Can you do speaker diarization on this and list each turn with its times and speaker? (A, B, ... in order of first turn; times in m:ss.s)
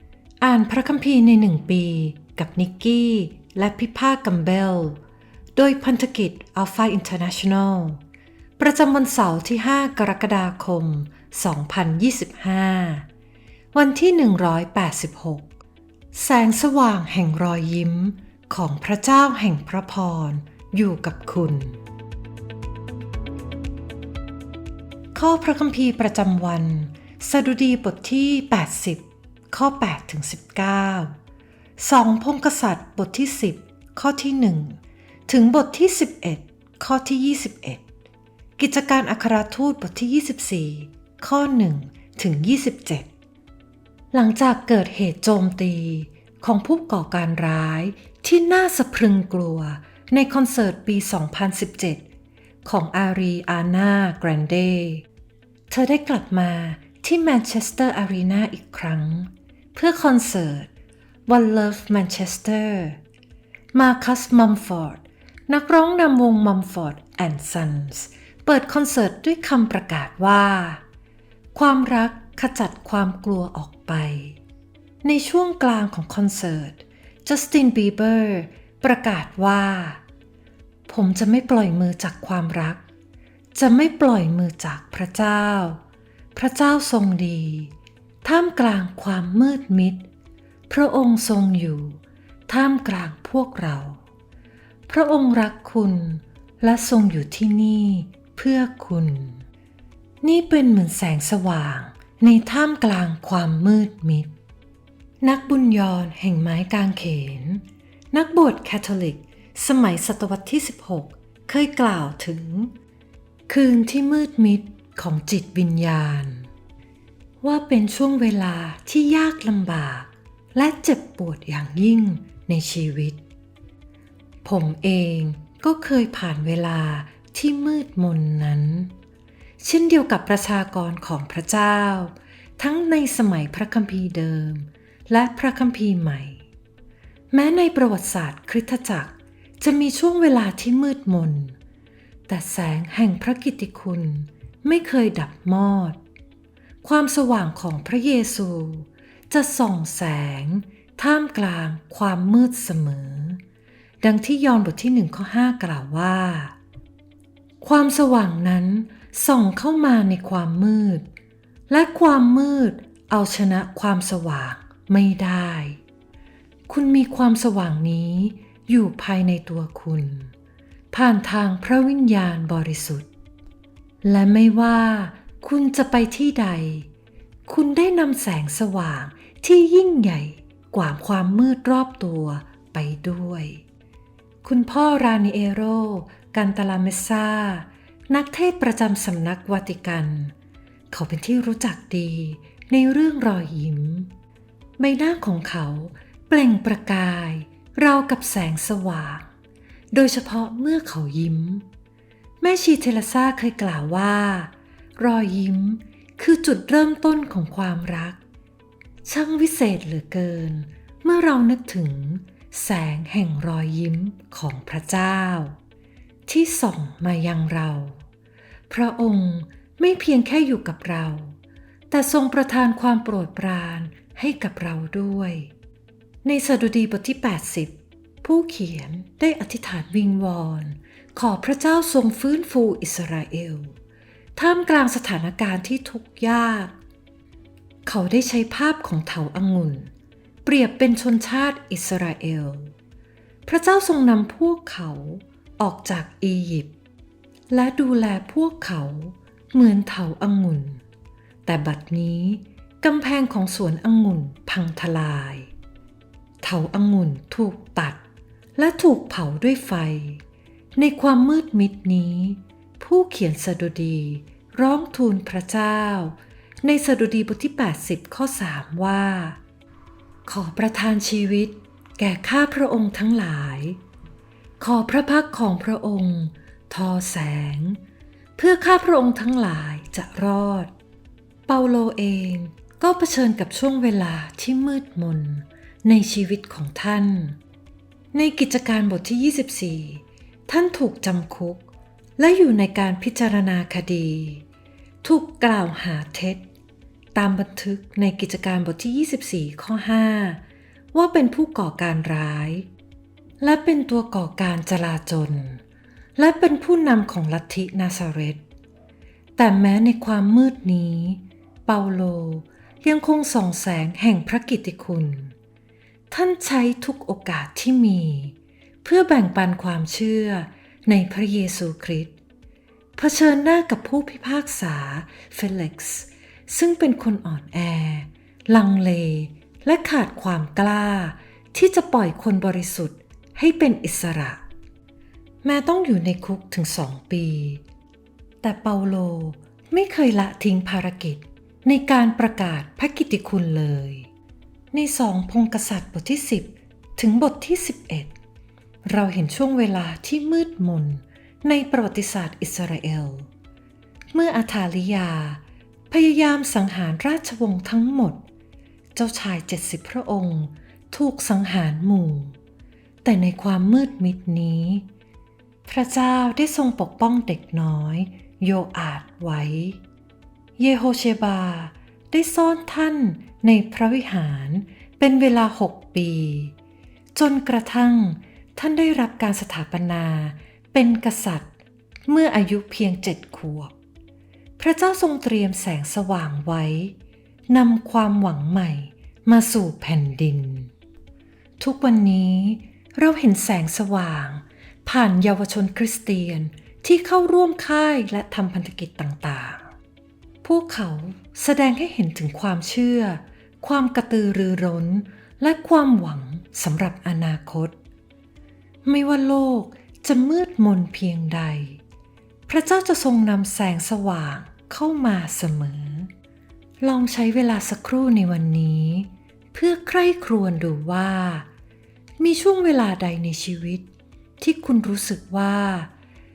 0:00.4-0:05.0 A
0:05.6-0:08.0 A
0:08.6-0:13.1 A
0:13.7-0:15.6 A
0:16.1-0:21.8 A
0:25.1-0:31.2 A
0:31.8-0:37.9 A
0:38.6-0:43.1 A
0:44.1-0:52.1 A
0:52.6-0:55.0 A
0:55.7-1:00.7 A
1:01.3-1:03.0 A
1:03.7-1:10.8 A
1:11.5-1:14.4 A
1:15.0-1:20.0 A
1:20.9-1:22.8 A
1:23.6-1:25.8 A
1:26.3-1:30.1 A
1:30.7-1:34.0 A
1:34.9-1:39.4 A
1:40.2-1:44.3 A
1:45.2-1:52.7 A
1:53.5-1:56.5 A
1:57.4-2:03.2 A
2:04.4-2:08.9 A
2:09.6-2:16.4 A
2:17.3-2:21.6 A
2:22.3-2:26.0 A
2:26.8-2:33.4 A
2:34.0-2:36.6 A
2:37.6-2:41.1 A
2:41.7-2:45.8 A
2:46.7-2:50.3 A
2:50.9-2:53.1 A
2:54.0-2:56.9 A
2:57.4-3:03.6 A
3:04.4-3:10.4 A
3:10.9-3:14.1 A
3:14.8-3:19.3 A
3:19.9-3:21.6 A
3:22.4-3:28.2 A
3:29.0-3:35.6 A
3:36.3-3:38.0 A
3:38.7-3:41.4 A
3:41.9-3:45.5 A
3:46.2-3:53.8 A
3:54.4-3:56.8 A
3:57.9-3:59.9 A
4:00.4-4:02.7 A
4:03.4-4:06.7 A
4:07.5-4:10.8 A
4:11.4-4:15.5 A
4:16.4-4:18.0 A
4:18.6-4:20.2 A
4:20.8-4:29.4 A
4:30.2-4:33.8 A
4:34.6-4:37.8 A
4:38.4-4:40.7 A
4:41.5-4:47.4 A
4:48.1-4:54.4 A
4:55.0-4:56.4 A
4:57.1-5:00.4 A
5:00.9-5:02.7 A
5:03.4-5:05.6 A
5:06.2-5:08.4 A
5:09.4-5:15.3 A
5:16.1-5:22.2 A
5:23.0-5:34.4 A
5:35.4-5:37.6 A
5:38.4-5:44.1 A
5:44.7-5:48.1 A
5:48.8-5:53.3 A
5:54.1-5:58.2 A
5:58.9-6:02.4 A
6:03.0-6:04.9 A
6:05.6-6:09.8 A
6:10.6-6:16.5 A
6:17.1-6:21.5 A
6:22.1-6:23.7 A
6:24.6-6:27.0 A
6:27.5-6:30.7 A
6:31.6-6:39.7 A
6:40.4-6:47.8 A
6:48.8-6:51.8 A
6:52.5-6:56.1 A
6:56.8-7:01.5 A
7:02.2-7:03.9 A
7:04.4-7:05.9 A